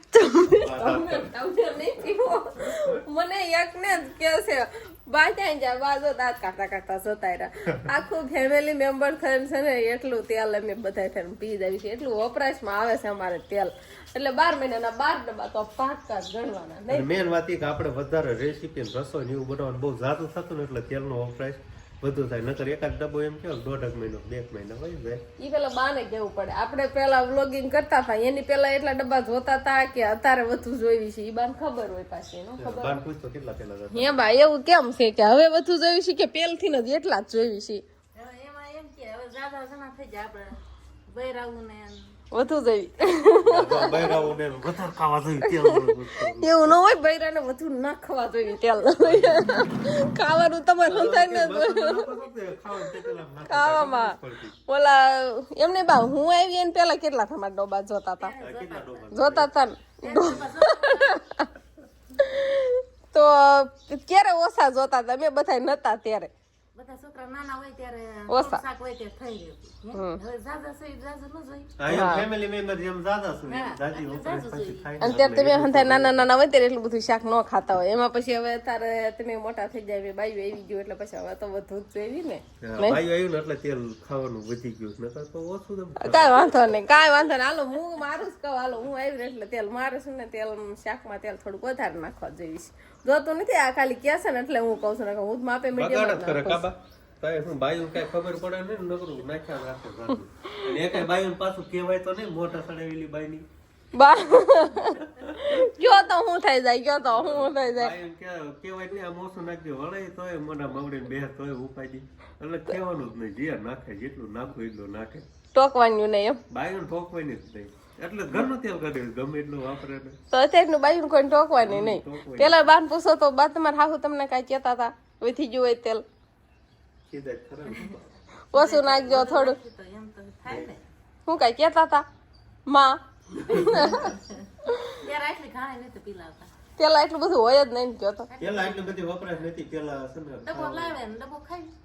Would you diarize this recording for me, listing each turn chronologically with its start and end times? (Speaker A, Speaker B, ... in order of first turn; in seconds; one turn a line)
Speaker A: 0.1-17.1
Speaker B: 0.5-1.3
Speaker B: 2.6-3.0
Speaker B: 16.9-25.2
Speaker A: 25.4-33.0
Speaker B: 32.6-34.2
Speaker A: 33.9-37.8
Speaker C: 38.1-42.2
Speaker A: 42.3-44.2
Speaker B: 43.4-46.8
Speaker A: 45.4-52.1
Speaker B: 49.0-49.6
Speaker B: 50.8-54.5
Speaker A: 52.8-58.3
Speaker C: 58.2-59.1
Speaker B: 58.4-59.5
Speaker A: 59.1-61.5
Speaker C: 60.0-61.2
Speaker A: 62.2-66.3
Speaker C: 66.7-71.8
Speaker A: 68.3-68.6
Speaker A: 69.9-70.2
Speaker B: 71.8-76.2
Speaker A: 71.9-72.3
Speaker C: 73.5-74.9
Speaker A: 75.0-83.0
Speaker B: 82.6-86.6
Speaker A: 86.0-96.6
Speaker B: 95.8-103.5
Speaker A: 103.9-107.9
Speaker B: 107.1-115.3
Speaker A: 115.5-116.4
Speaker B: 116.5-120.2
Speaker A: 120.3-126.0
Speaker B: 121.6-122.7
Speaker B: 127.1-128.1
Speaker A: 128.5-129.6
Speaker C: 128.5-130.8
Speaker B: 130.5-130.7
Speaker A: 131.2-132.0
Speaker A: 132.7-134.9
Speaker B: 133.4-133.9
Speaker C: 133.7-134.4
Speaker C: 135.0-136.5
Speaker A: 136.8-138.3
Speaker C: 138.3-139.0
Speaker B: 138.4-141.0
Speaker C: 140.4-141.7